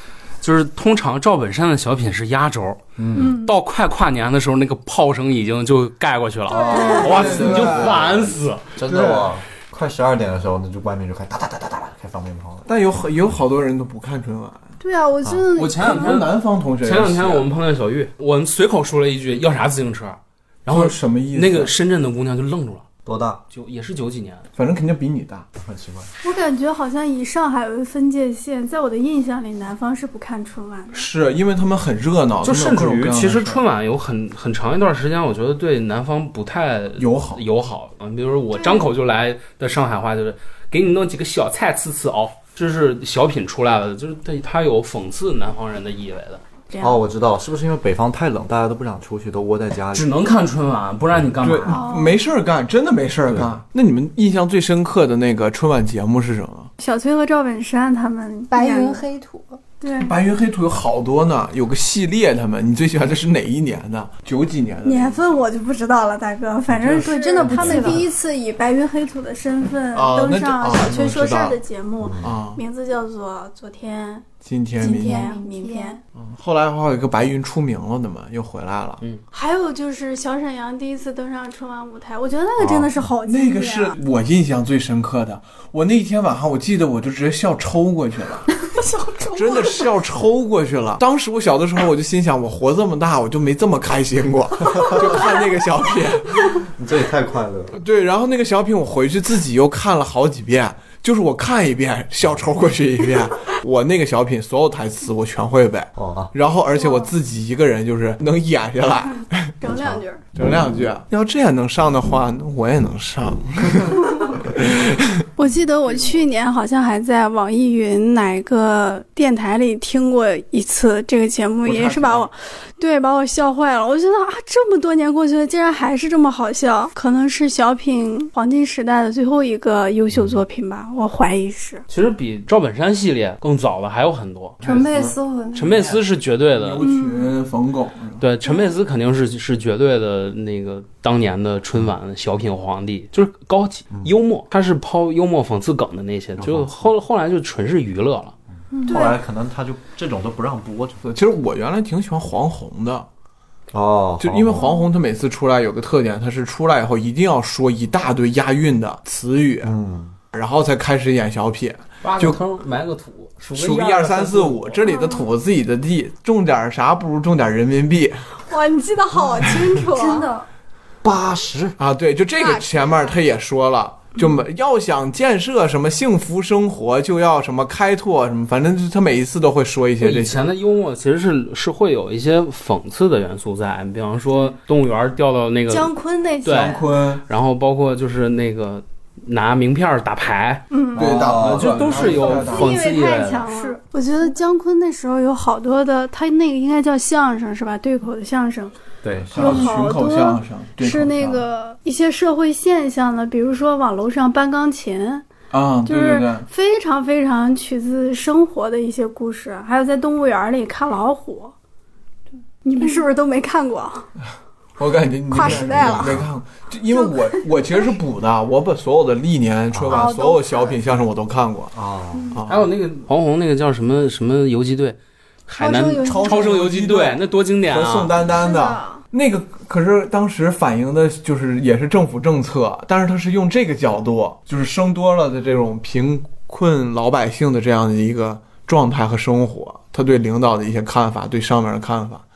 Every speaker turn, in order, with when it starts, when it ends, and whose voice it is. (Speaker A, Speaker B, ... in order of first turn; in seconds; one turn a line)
Speaker A: 0.4-8.7
Speaker B: 3.0-3.4
Speaker C: 6.5-7.3
Speaker D: 6.7-8.1
Speaker B: 6.9-12.7
Speaker D: 8.9-9.3
Speaker D: 12.7-14.7
Speaker C: 14.8-16.2
Speaker A: 15.6-22.8
Speaker D: 15.8-17.5
Speaker D: 20.7-21.7
Speaker B: 23.1-23.4
Speaker A: 23.5-24.5
Speaker D: 24.6-25.5
Speaker B: 25.6-26.1
Speaker C: 26.2-31.0
Speaker D: 30.9-33.6
Speaker A: 32.4-46.4
Speaker D: 37.0-37.4
Speaker C: 38.5-38.9
Speaker C: 46.7-47.0
Speaker B: 46.8-50.1
Speaker A: 49.9-51.8
Speaker D: 51.4-56.7
Speaker C: 51.7-52.2
Speaker C: 56.8-59.0
Speaker E: 58.5-59.6
Speaker C: 59.8-60.1
Speaker D: 60.0-65.2
Speaker C: 64.8-74.3
Speaker D: 66.7-68.0
Speaker E: 66.9-68.1
Speaker B: 67.5-68.0
Speaker D: 69.9-71.6
Speaker B: 72.0-72.3
Speaker D: 72.2-72.6
Speaker D: 74.4-75.3
Speaker C: 74.8-76.0
Speaker E: 75.0-76.0
Speaker D: 76.2-79.0
Speaker C: 79.3-84.0
Speaker B: 82.6-82.9
Speaker D: 83.2-88.5
Speaker C: 88.6-89.9
Speaker D: 89.3-96.6
Speaker B: 94.8-95.1
Speaker B: 96.6-97.8
Speaker D: 97.7-109.5
Speaker B: 106.0-106.3
Speaker C: 106.8-107.1
Speaker C: 109.6-110.2
Speaker B: 109.7-110.0
Speaker D: 110.3-115.2
Speaker C: 115.4-131.8
Speaker D: 121.6-122.3
Speaker B: 130.1-130.4
Speaker A: 131.9-134.6
Speaker B: 134.6-136.0
Speaker E: 134.6-135.7
Speaker A: 135.5-136.8
Speaker D: 136.5-138.2
Speaker C: 136.8-137.3
Speaker A: 138.2-148.3
Speaker B: 146.4-146.9
Speaker C: 148.8-149.2
Speaker B: 148.8-151.0
Speaker D: 151.0-153.1
Speaker B: 153.7-154.7
Speaker D: 154.2-159.7
Speaker B: 159.6-160.2
Speaker D: 160.3-162.4
Speaker A: 162.0-164.8
Speaker D: 163.6-168.2
Speaker C: 164.9-165.1
Speaker C: 168.5-170.3
Speaker E: 169.9-170.5
Speaker B: 171.0-171.8
Speaker D: 171.8-180.4
Speaker E: 172.4-173.2
Speaker A: 180.0-185.9
Speaker C: 185.7-186.9
Speaker A: 186.4-193.4
Speaker D: 186.5-187.2
Speaker C: 190.7-191.0
Speaker B: 190.9-192.4
Speaker D: 191.0-192.8
Speaker C: 192.4-198.7
Speaker E: 193.4-193.8
Speaker B: 199.0-199.7
Speaker D: 199.3-201.4
Speaker C: 199.3-205.3
Speaker D: 205.5-206.5
Speaker C: 205.9-211.5
Speaker C: 212.6-214.1
Speaker D: 214.8-221.7
Speaker C: 215.3-216.2
Speaker B: 215.4-216.3
Speaker C: 216.9-217.9
Speaker B: 219.7-220.1
Speaker C: 219.9-220.8
Speaker B: 221.7-222.4
Speaker D: 222.3-222.7
Speaker A: 222.5-228.1
Speaker C: 225.6-226.5
Speaker D: 226.0-242.2
Speaker C: 228.4-229.0
Speaker E: 228.5-228.8